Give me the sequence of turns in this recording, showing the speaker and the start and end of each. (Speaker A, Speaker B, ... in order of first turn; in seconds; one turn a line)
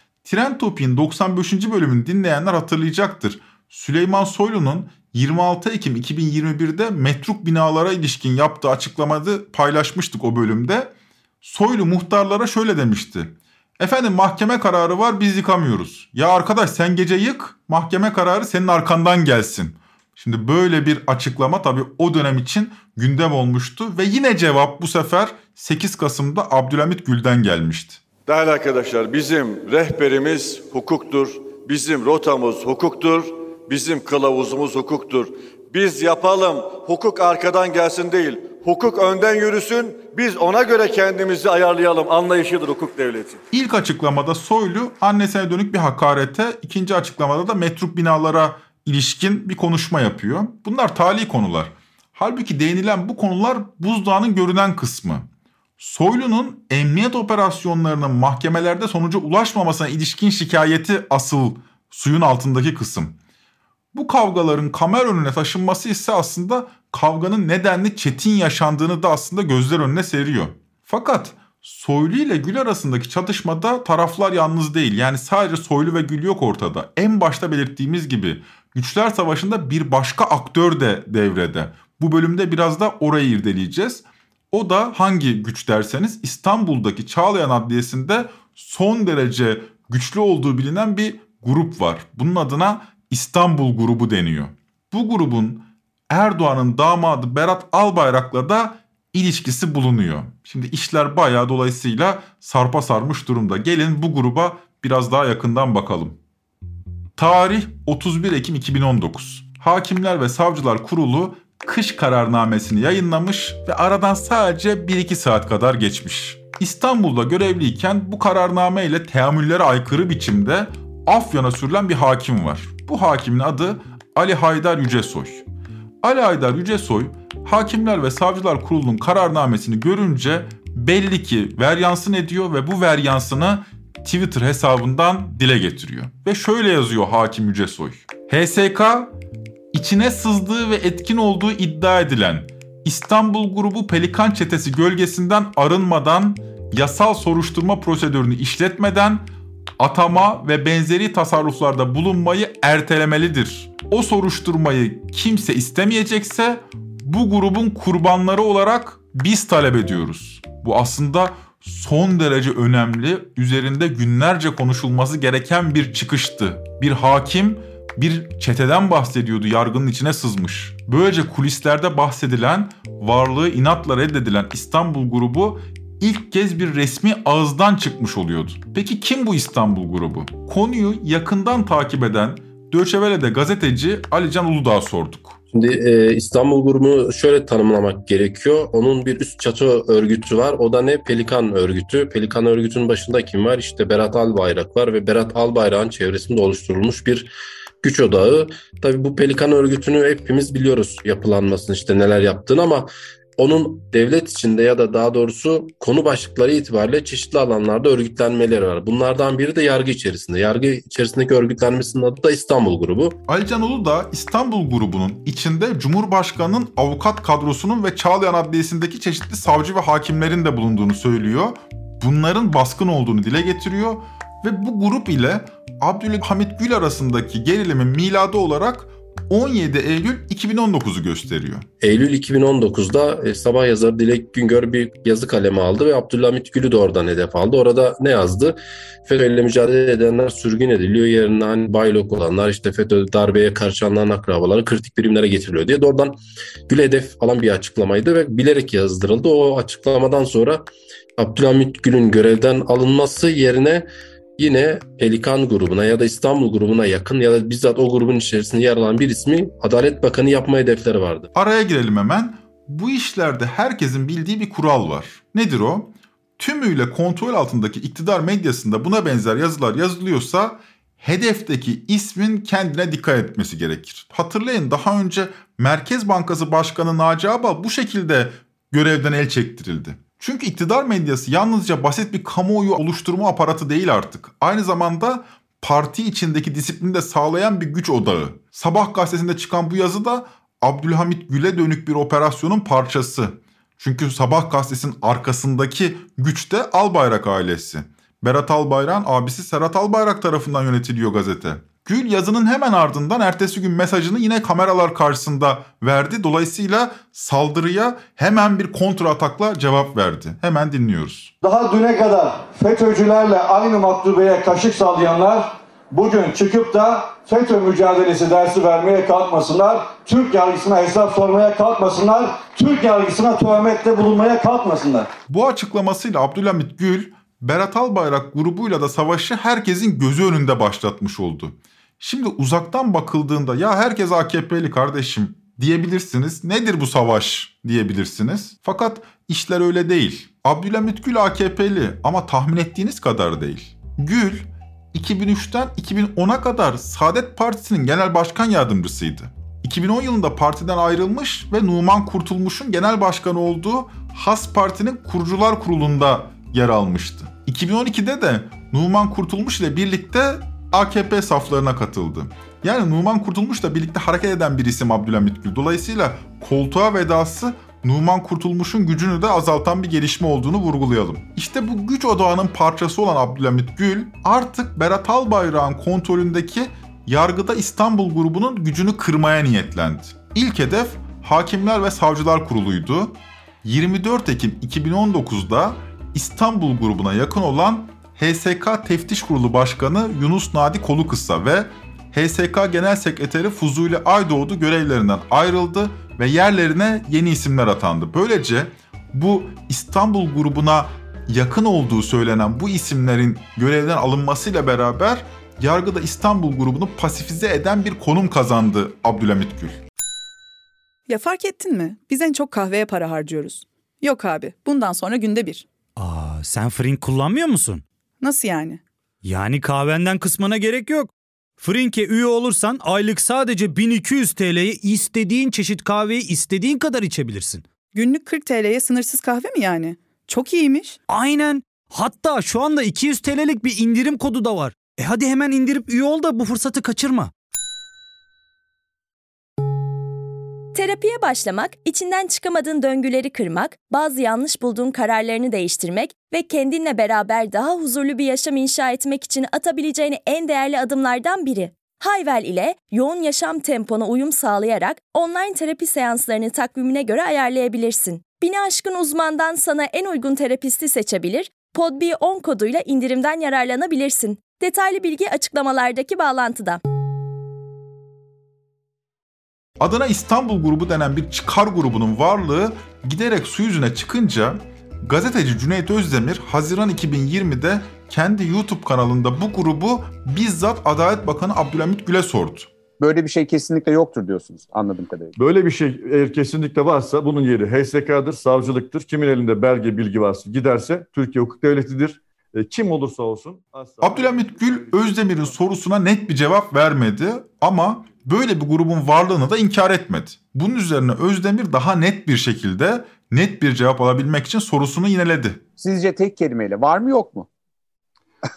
Speaker A: 0.2-28.0
Speaker B: 28.2-43.4
Speaker A: 43.5-55.3
Speaker A: 55.8-63.1
Speaker A: 63.9-106.2
Speaker A: 107.2-125.4
Speaker A: 126.0-139.1
Speaker A: 139.7-149.3
Speaker A: 149.8-185.4
Speaker C: 185.5-213.2
Speaker A: 213.3-231.7
Speaker C: 231.8-250.6
Speaker C: 251.2-261.3
Speaker A: 261.3-311.3
Speaker D: 311.4-325.1
Speaker A: 325.3-409.8
Speaker E: 411.1-415.6
Speaker F: 416.0-417.8
Speaker E: 418.2-418.8
Speaker F: 419.2-427.7
Speaker E: 427.9-431.0
Speaker F: 431.1-437.3
Speaker G: 440.7-466.8
Speaker A: 469.8-482.7
Speaker H: 483.0-485.3
Speaker I: 485.4-495.3
Speaker A: 494.0-505.6
Speaker H: 505.8-507.5